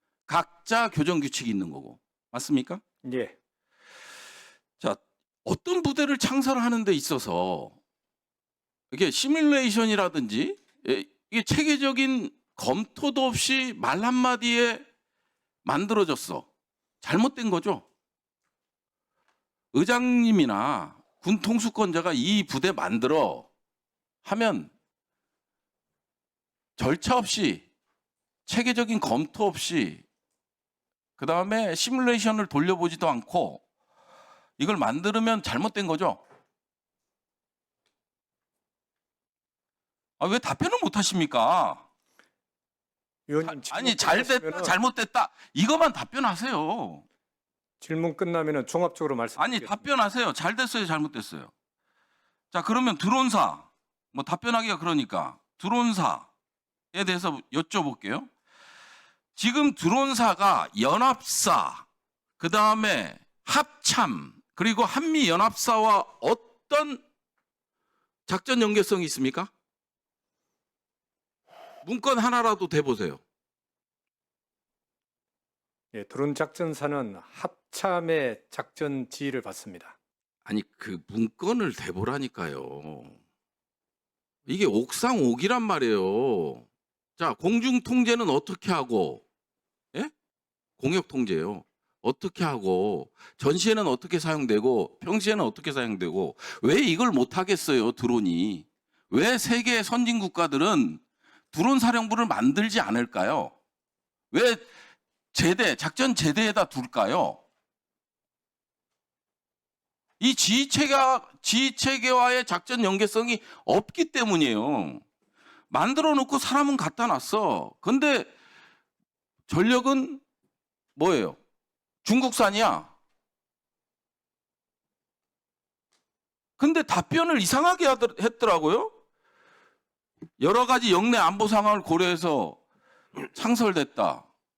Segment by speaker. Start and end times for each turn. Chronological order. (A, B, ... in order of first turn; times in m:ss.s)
0:00.3-0:02.8 A
0:03.0-0:03.3 B
0:04.8-0:07.8 A
0:08.9-0:14.8 A
0:15.6-0:16.5 A
0:17.0-0:17.8 A
0:19.7-0:23.5 A
0:24.2-0:24.7 A
0:26.8-0:27.6 A
0:28.4-0:30.0 A
0:31.2-0:33.6 A
0:34.6-0:36.2 A
0:40.2-0:41.8 A
0:43.3-0:44.7 B
0:43.4-0:47.0 A
0:47.8-0:49.9 B
0:49.4-0:51.5 A
0:52.5-0:56.3 A
0:56.9-0:58.3 A
0:59.4-1:01.8 A
1:02.4-1:07.0 A
1:08.3-1:09.5 A
1:11.8-1:13.2 A
1:15.9-1:20.0 B
1:20.4-1:23.2 A
1:24.5-1:26.6 A
1:27.2-1:29.2 A
1:30.8-1:41.0 A
1:41.5-1:43.5 A
1:44.3-1:44.6 A
1:45.3-1:47.4 A
1:50.2-1:55.0 A
1:55.7-1:58.3 A
1:59.5-2:00.2 A
2:01.0-2:01.4 A
2:02.0-2:02.9 A
2:06.6-2:08.9 A
2:10.4-2:12.6 A
2:13.3-2:14.2 A